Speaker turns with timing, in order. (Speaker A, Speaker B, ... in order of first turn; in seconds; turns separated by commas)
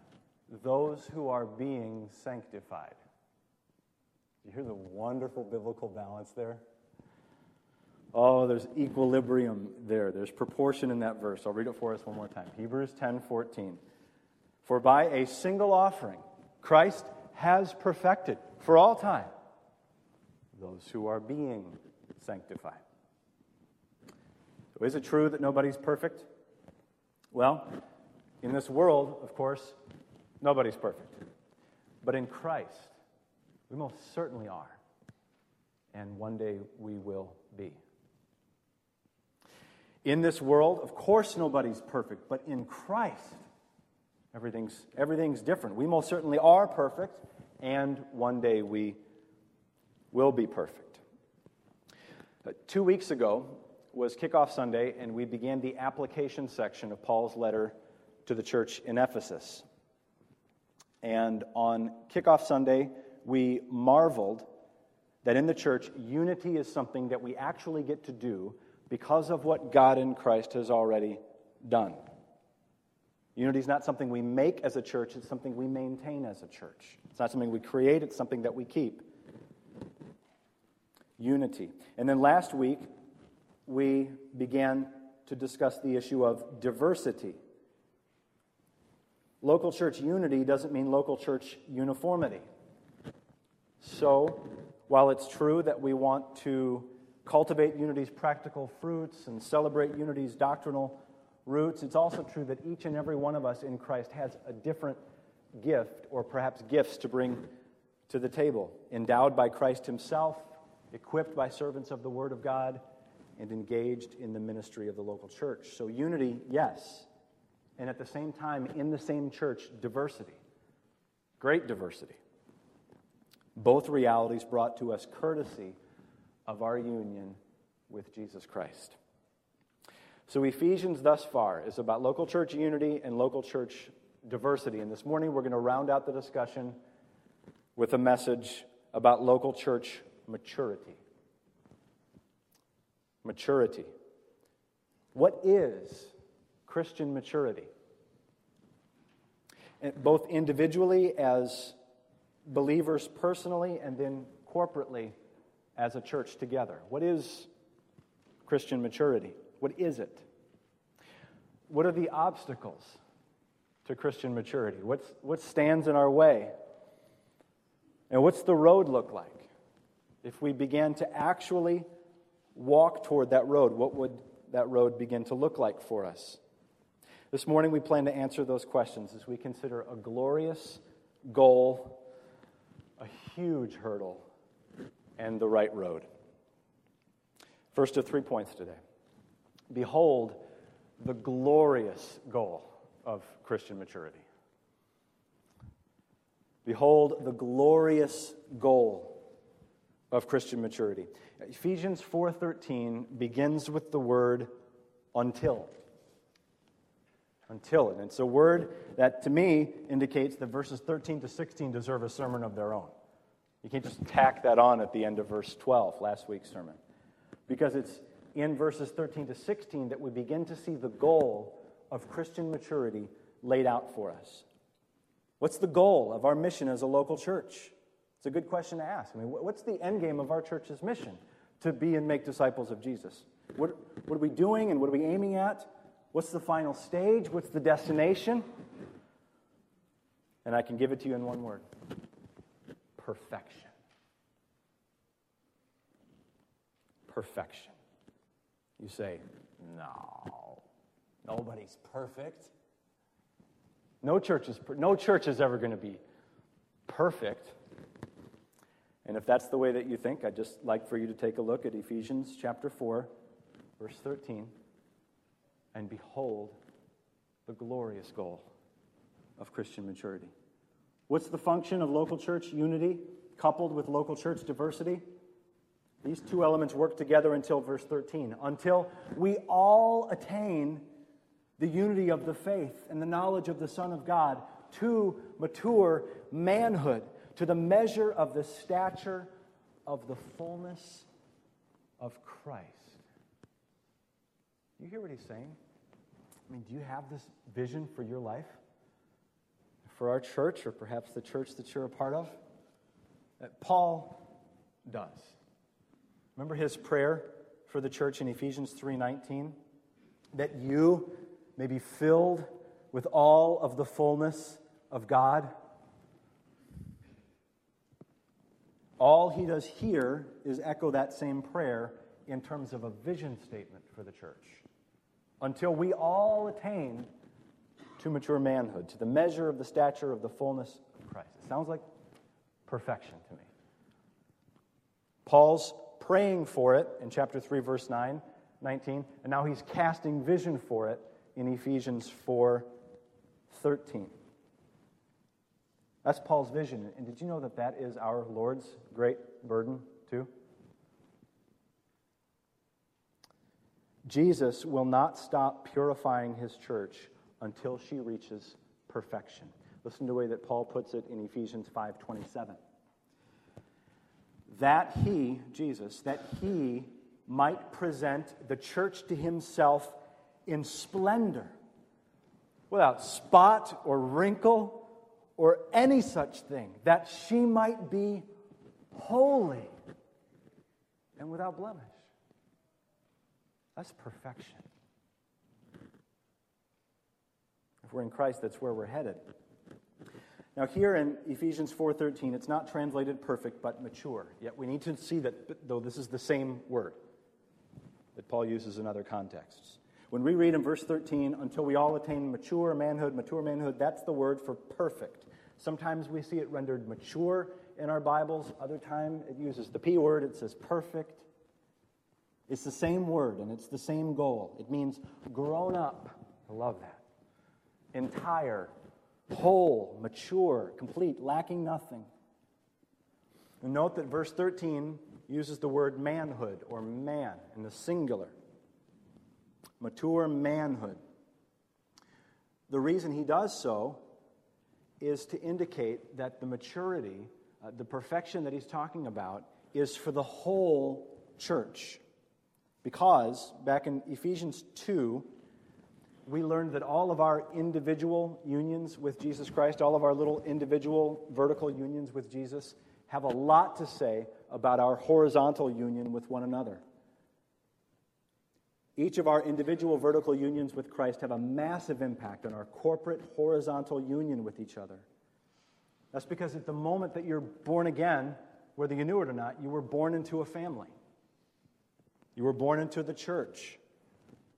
Speaker A: 0.5-3.0, Speaker A: 4.4-6.6, Speaker A: 8.1-13.8, Speaker A: 14.6-19.3, Speaker A: 20.6-22.8, Speaker A: 24.8-26.3, Speaker A: 27.3-27.8, Speaker A: 28.4-29.8, Speaker A: 30.4-31.2, Speaker A: 32.0-32.9, Speaker A: 33.7-34.8, Speaker A: 35.9-37.8, Speaker A: 40.0-43.4, Speaker A: 44.3-49.0, Speaker A: 50.1-51.0, Speaker A: 52.4-59.6, Speaker A: 61.0-64.5, Speaker A: 65.2-72.0, Speaker A: 73.3-79.0, Speaker A: 81.2-82.9, Speaker A: 83.7-87.4, Speaker A: 89.4-92.4, Speaker A: 93.8-105.0, Speaker A: 105.5-107.5, Speaker A: 108.1-112.8, Speaker A: 113.4-117.1, Speaker A: 117.8-120.4, Speaker A: 121.4-122.2, Speaker A: 123.5-125.8, Speaker A: 126.5-127.4, Speaker A: 127.9-129.0, Speaker A: 130.3-136.8, Speaker A: 137.8-141.0, Speaker A: 143.2-143.9, Speaker A: 145.1-146.1, Speaker A: 146.7-147.7, Speaker A: 149.8-151.8, Speaker A: 152.4-155.1, Speaker A: 155.8-157.5, Speaker A: 158.4-160.2, Speaker A: 161.7-163.0, Speaker A: 163.8-166.5, Speaker A: 168.1-169.5, Speaker A: 170.2-171.9, Speaker A: 172.5-176.4, Speaker A: 177.3-182.0, Speaker A: 183.0-184.2, Speaker A: 185.2-186.1, Speaker A: 187.7-188.8, Speaker A: 189.7-190.4, Speaker A: 191.0-194.2, Speaker A: 196.6-199.2, Speaker A: 200.1-204.5, Speaker A: 205.1-205.7, Speaker A: 207.5-212.9, Speaker A: 213.6-216.8, Speaker A: 217.5-224.4, Speaker A: 225.4-238.4, Speaker A: 240.4-241.6, Speaker A: 243.0-243.7, Speaker A: 247.1-247.7, Speaker A: 248.8-250.6, Speaker A: 251.2-252.5, Speaker A: 254.0-256.0, Speaker A: 256.9-257.6, Speaker A: 259.0-263.1, Speaker A: 263.8-264.5, Speaker A: 265.7-266.6, Speaker A: 267.4-268.5, Speaker A: 269.4-270.3, Speaker A: 271.1-275.0, Speaker A: 276.0-280.9, Speaker A: 281.6-289.3, Speaker A: 289.9-291.1, Speaker A: 292.0-293.0, Speaker A: 294.8-295.6, Speaker A: 296.5-298.6, Speaker A: 299.9-302.4, Speaker A: 303.4-304.2, Speaker A: 304.9-305.4, Speaker A: 306.4-309.6, Speaker A: 310.3-315.5, Speaker A: 319.0-324.6, Speaker A: 325.4-327.1, Speaker A: 328.0-331.8, Speaker A: 332.7-333.5, Speaker A: 335.2-342.7, Speaker A: 343.5-344.1, Speaker A: 346.0-350.3, Speaker A: 354.1-362.6, Speaker A: 364.5-371.5, Speaker A: 372.7-378.2, Speaker A: 378.9-379.7, Speaker A: 381.2-382.0, Speaker A: 383.8-384.6, Speaker A: 387.8-389.2, Speaker A: 390.5-397.0, Speaker A: 398.1-411.3, Speaker A: 412.5-417.0, Speaker A: 417.9-418.7, Speaker A: 419.3-422.1, Speaker A: 423.6-428.3, Speaker A: 429.8-431.0, Speaker A: 432.7-434.0, Speaker A: 435.0-442.0, Speaker A: 442.8-445.3, Speaker A: 446.2-456.8, Speaker A: 459.0-465.1, Speaker A: 466.1-470.9, Speaker A: 472.4-473.8